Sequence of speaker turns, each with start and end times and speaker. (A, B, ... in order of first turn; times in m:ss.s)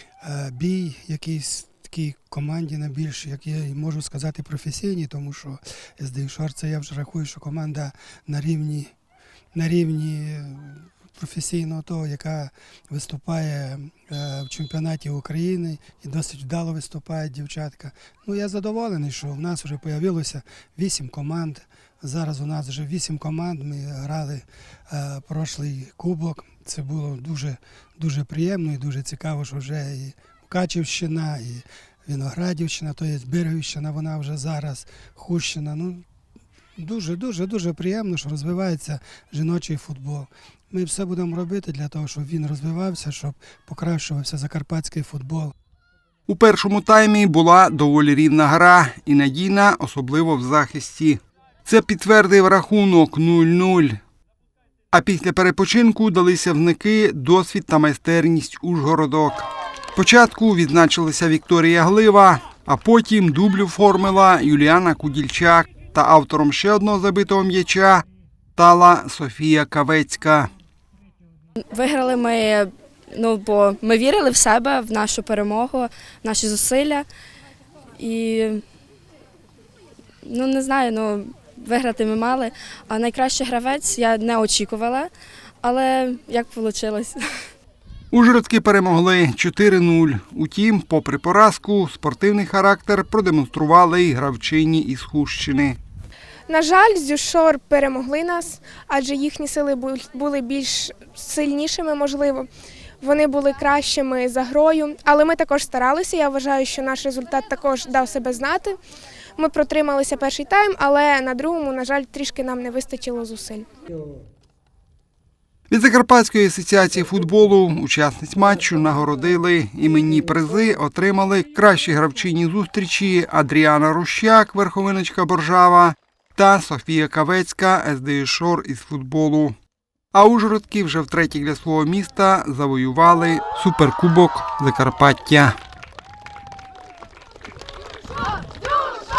0:00.2-0:08.9 A
0:09.5-0:36.0 A
0:36.8-0:45.5 A
0:46.3-0:54.0 B
0:54.9-1:08.0 B
1:08.6-1:10.5 B
1:11.7-1:17.1 C
1:18.0-1:18.6 C
1:20.2-1:25.1 C
1:25.6-1:27.2 C
1:28.1-1:35.8 B
1:36.5-1:42.5 D
1:43.0-1:48.8 D
1:49.4-1:53.7 D
1:55.7-2:09.6 B
2:10.1-2:15.6 B